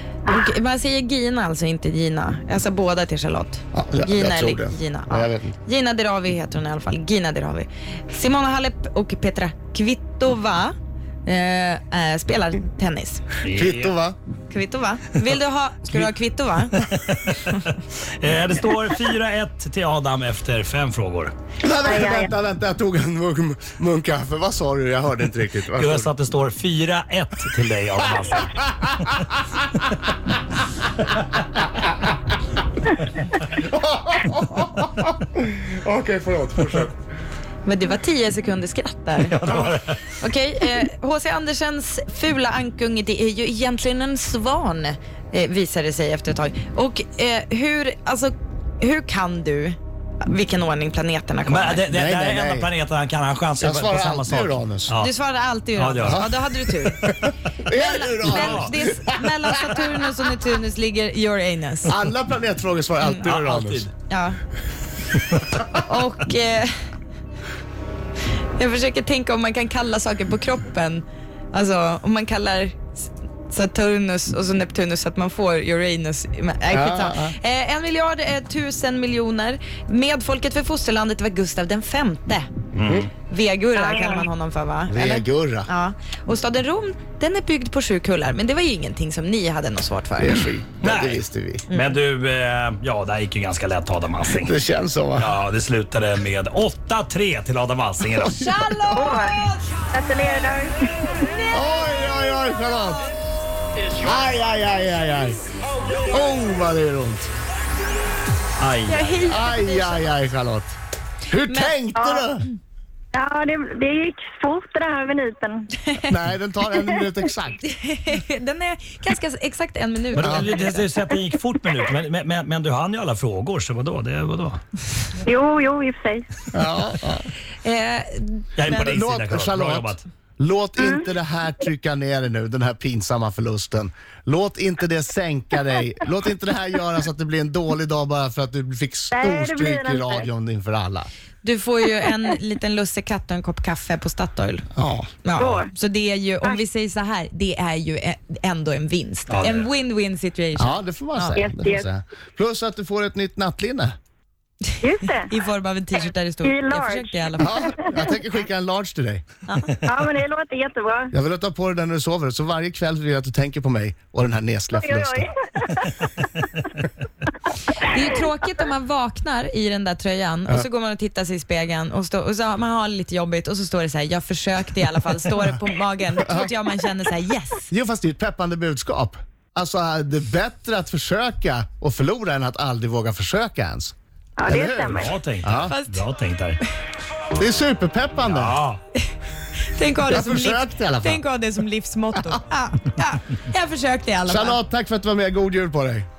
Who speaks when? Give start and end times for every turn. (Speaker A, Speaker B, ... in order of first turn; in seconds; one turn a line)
Speaker A: 0.3-10.7
Speaker B: 3.7-5.5
Speaker A: 11.2-13.2
Speaker C: 13.4-13.9
Speaker B: 13.5-14.2
Speaker A: 14.5-16.7
Speaker C: 16.7-21.3
Speaker B: 21.6-26.1
Speaker D: 21.8-22.3
Speaker C: 25.8-28.6
Speaker B: 28.8-29.1
Speaker B: 33.4-36.9
Speaker A: 37.6-39.4
Speaker C: 39.2-40.0
Speaker A: 40.2-51.8
Speaker C: 51.5-55.1
Speaker B: 51.9-52.7
Speaker B: 53.6-55.0
Speaker A: 54.9-57.1
Speaker C: 55.8-56.2
Speaker B: 56.0-59.9
Speaker A: 57.7-61.9
Speaker C: 58.2-58.7
Speaker B: 61.9-63.9
Speaker C: 63.2-63.9
Speaker A: 64.1-64.4
Speaker C: 65.2-65.4
Speaker A: 65.7-66.7
Speaker A: 68.5-82.5
Speaker B: 76.7-77.3
Speaker C: 82.7-83.1
Speaker A: 83.3-90.4
Speaker D: 83.8-84.2
Speaker B: 84.9-85.7
Speaker B: 90.2-91.7
Speaker C: 90.8-94.5
Speaker A: 91.7-92.0
Speaker B: 94.3-95.3
Speaker C: 95.2-98.4
Speaker B: 98.1-99.1
Speaker A: 98.4-99.7
Speaker D: 98.9-99.4
Speaker D: 99.9-101.1
Speaker A: 101.2-102.1
Speaker B: 101.5-103.1
Speaker B: 104.0-105.4
Speaker B: 105.9-107.3
Speaker C: 108.6-109.2
Speaker A: 108.8-110.1
Speaker B: 109.3-110.8
Speaker B: 111.3-112.5
Speaker A: 111.4-111.8
Speaker D: 112.0-112.2
Speaker D: 113.1-115.7
Speaker B: 116.0-117.6
Speaker A: 117.6-120.9
Speaker C: 120.1-124.6
Speaker B: 120.2-120.5
Speaker D: 125.2-126.3
Speaker B: 126.5-127.3
Speaker A: 127.6-128.8
Speaker C: 128.6-130.0
Speaker B: 128.7-141.1
Speaker D: 130.8-131.1
Speaker D: 139.1-140.2
Speaker A: 141.4-144.7
Speaker B: 144.7-145.1
Speaker A: 145.2-151.4
Speaker D: 145.4-145.7
Speaker C: 149.3-149.7
Speaker B: 150.5-153.9
Speaker D: 151.4-151.9
Speaker D: 154.8-155.3
Speaker A: 155.3-157.8
Speaker D: 156.4-157.9
Speaker B: 157.4-159.2
Speaker A: 159.5-159.8
Speaker D: 159.8-161.1
Speaker B: 161.1-165.3
Speaker D: 164.8-165.9
Speaker A: 167.8-177.7
Speaker B: 176.2-176.5
Speaker B: 177.7-183.9
Speaker D: 184.4-185.2
Speaker B: 184.5-185.7
Speaker C: 184.9-186.6
Speaker A: 185.5-186.1
Speaker B: 187.3-188.6
Speaker C: 188.2-188.8
Speaker A: 189.7-194.6
Speaker B: 190.1-191.2
Speaker B: 194.3-196.1